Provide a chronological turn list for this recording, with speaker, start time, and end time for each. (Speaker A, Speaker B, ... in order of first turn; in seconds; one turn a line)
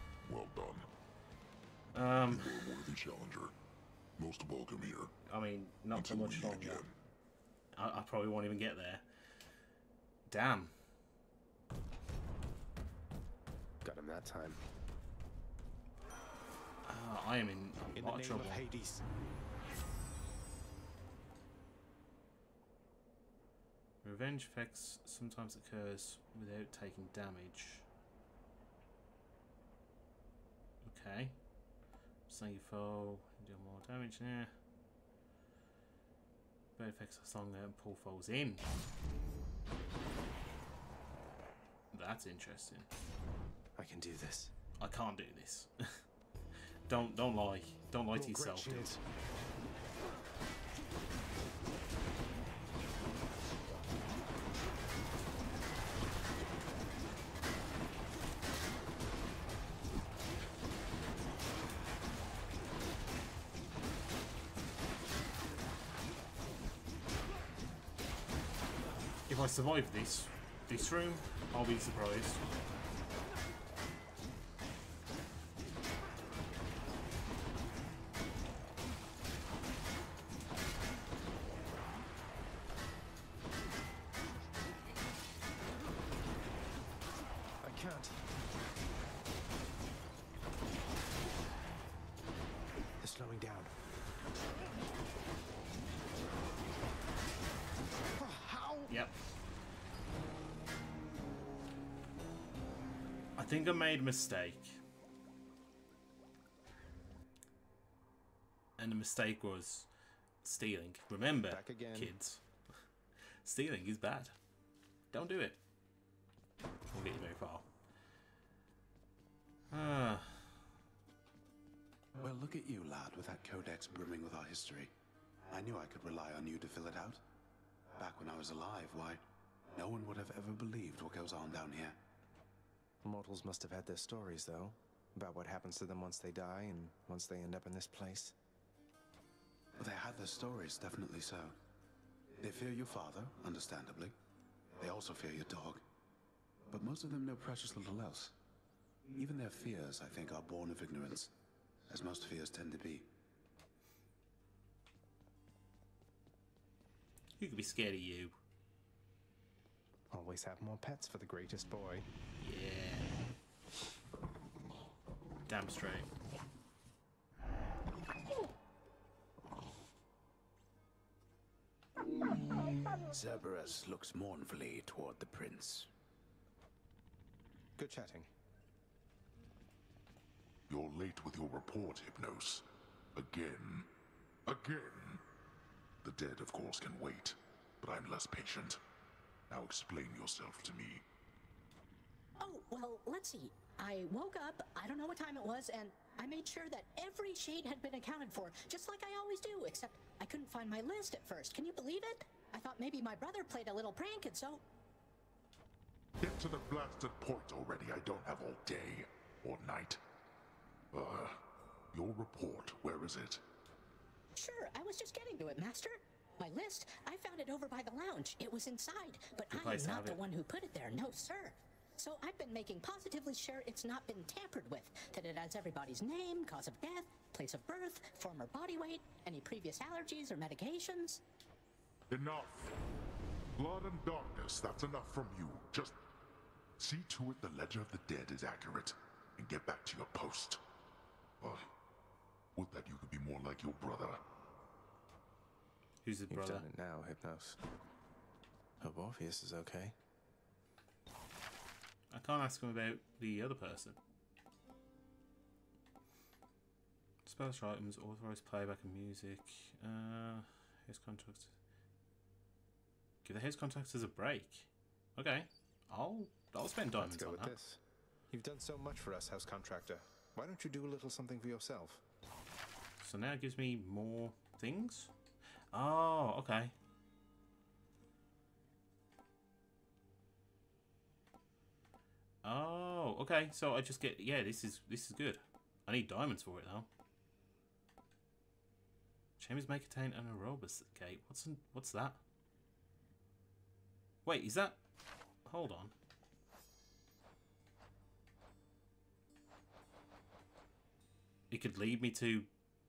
Speaker A: 0.2-0.9
Speaker B: 1.9-2.6
Speaker A: 2.3-3.5
Speaker A: 4.2-5.1
Speaker B: 5.2-6.8
Speaker A: 5.9-6.9
Speaker B: 7.8-9.0
Speaker B: 10.3-10.7
Speaker C: 13.8-14.6
Speaker B: 16.8-18.6
Speaker C: 17.9-19.0
Speaker B: 24.0-27.9
Speaker B: 30.8-31.4
Speaker B: 32.3-34.5
Speaker B: 36.8-38.6
Speaker B: 41.9-42.9
Speaker C: 43.8-44.5
Speaker B: 44.8-46.0
Speaker B: 46.9-49.0
Speaker C: 48.1-49.0
Speaker B: 69.3-72.4
Speaker C: 87.6-88.2
Speaker C: 93.0-93.7
Speaker C: 98.1-98.9
Speaker B: 98.9-99.2
Speaker B: 103.4-104.8
Speaker B: 108.8-109.9
Speaker B: 110.4-112.4
Speaker C: 111.5-112.1
Speaker B: 113.4-114.3
Speaker B: 115.1-115.6
Speaker B: 116.9-117.7
Speaker B: 119.7-120.5
Speaker D: 122.2-124.9
Speaker D: 125.5-127.2
Speaker D: 128.0-129.2
Speaker D: 129.7-132.0
Speaker C: 133.0-138.3
Speaker D: 139.8-141.5
Speaker D: 142.4-144.2
Speaker D: 144.8-145.8
Speaker D: 146.7-148.3
Speaker D: 149.2-151.3
Speaker D: 151.9-153.1
Speaker B: 157.4-158.3
Speaker C: 160.1-162.1
Speaker B: 162.4-163.1
Speaker B: 165.5-166.1
Speaker D: 173.0-175.9
Speaker C: 177.8-178.3
Speaker E: 180.7-183.9
Speaker E: 184.4-185.2
Speaker E: 186.0-188.8
Speaker E: 189.5-191.0
Speaker F: 192.4-204.6
Speaker E: 206.2-210.0
Speaker E: 210.9-211.4
Speaker E: 211.9-213.4
Speaker F: 214.3-231.2
Speaker B: 219.5-220.2
Speaker E: 232.1-232.7
Speaker E: 233.6-236.0
Speaker E: 236.8-240.6
Speaker E: 241.4-241.7
Speaker E: 242.6-244.2
Speaker B: 246.0-246.7
Speaker C: 246.3-247.6
Speaker C: 248.8-249.9
Speaker B: 252.1-254.0
Speaker B: 257.2-261.5
Speaker B: 263.2-267.5
Speaker C: 266.9-272.0
Speaker B: 273.0-275.1
Speaker B: 275.7-276.7
Speaker B: 282.4-286.9
Speaker B: 289.4-292.2
Speaker B: 294.2-294.8
Speaker B: 295.4-295.9
Speaker B: 301.5-302.5